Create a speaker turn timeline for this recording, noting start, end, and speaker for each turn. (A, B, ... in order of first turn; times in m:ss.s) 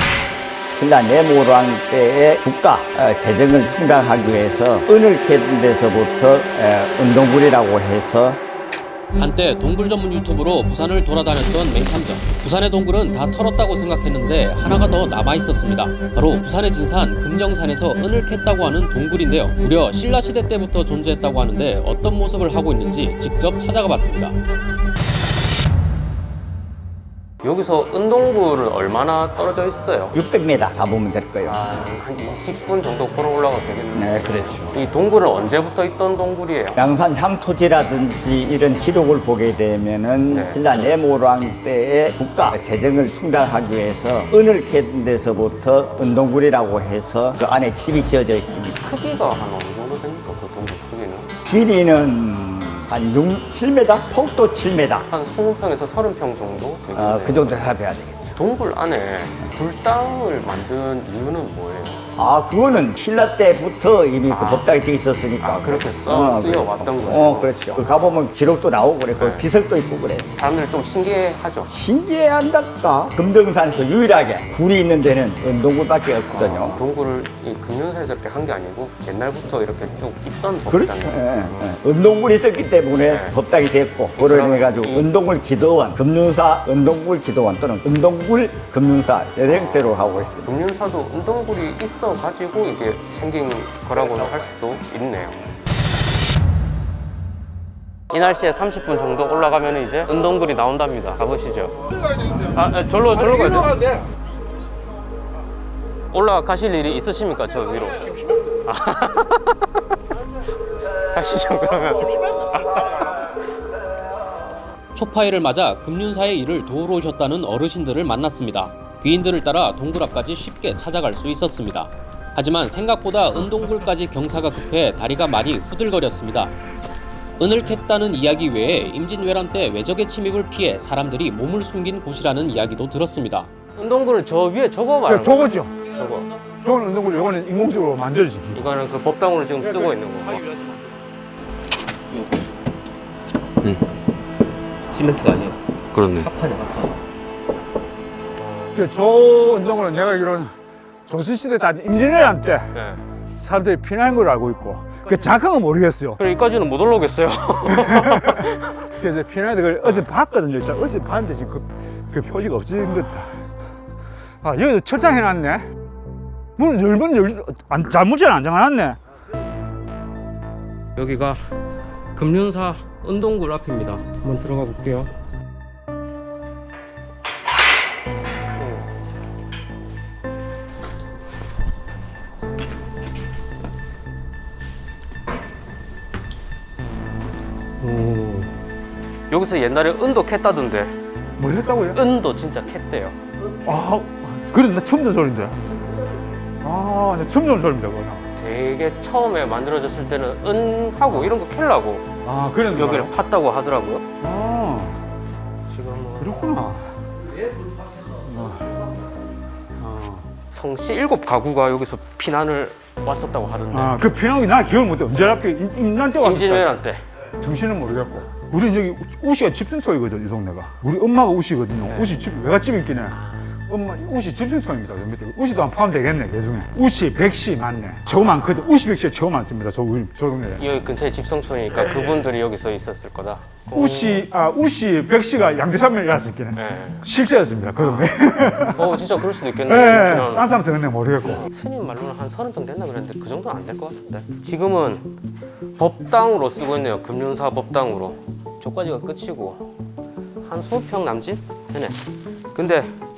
0:00.7-0:08.4 A
0:09.2-0:24.3 B
0:27.4-0:30.2 C
0:30.1-0:31.7 A
0:31.4-0:36.8 C
0:33.9-0:34.8 A
0:36.8-0:48.8 A
0:40.3-0:40.7 C
0:48.8-0:51.3 C
0:51.4-0:55.1 A
0:55.1-0:57.8 C
0:57.0-0:58.4 A
0:58.4-1:02.0 C
1:02.2-1:10.3 A
1:04.3-1:04.8 C
1:05.4-1:08.0 C
1:09.2-1:09.5 C
1:10.3-1:11.7 C
1:11.7-1:16.8 A
1:16.3-1:21.7 C
1:20.7-1:30.6 A
1:23.0-1:23.4 C
1:24.2-1:25.1 C
1:29.5-1:35.4 C
1:38.1-1:41.8 C
1:42.3-1:44.0 C
1:46.1-1:49.6 C
1:51.1-1:53.1 C
1:55.0-2:06.5 B
2:07.4-2:13.5 B
2:13.8-2:16.3 C
2:15.1-2:15.8 D
2:16.6-2:18.7 D
2:18.5-2:20.5 C
2:22.1-2:22.4 C
2:24.9-2:26.9 C
2:28.4-2:28.8 C
2:28.8-2:30.5 D
2:31.1-2:32.7 D
2:32.7-2:33.0 C
2:33.4-2:36.2 D
2:35.0-2:35.3 C
2:36.2-2:38.8 C
2:37.7-2:43.4 D
2:44.4-2:45.7 D
2:46.6-2:49.0 D
2:51.0-2:51.4 C
2:52.2-2:55.1 C
2:58.6-2:58.8 C
3:07.8-3:08.5 C
3:09.3-3:11.0 C
3:11.4-3:12.0 D
3:11.9-3:13.2 C
3:13.6-3:15.7 D
3:16.6-3:18.3 D
3:18.3-3:22.1 C
3:22.2-3:23.1 D
3:22.7-3:24.0 C
3:24.2-3:25.0 D
3:25.7-3:26.5 C
3:26.2-3:27.0 D
3:28.2-3:28.7 D
3:29.8-3:30.3 D
3:30.5-3:34.1 C
3:33.7-3:36.7 D
3:36.2-3:37.0 C
3:37.4-3:43.2 D
3:41.8-3:42.3 C
3:43.1-3:43.5 C
3:43.7-3:50.7 D
3:48.1-3:48.7 C
3:50.6-3:54.3 C
3:51.9-3:52.2 D
3:53.7-3:59.0 D
3:56.6-3:57.1 C
3:57.8-4:00.6 C
3:59.6-4:01.5 D
4:01.2-4:05.1 C
4:05.8-4:09.7 C
4:10.4-4:12.0 C
4:12.5-4:13.0 C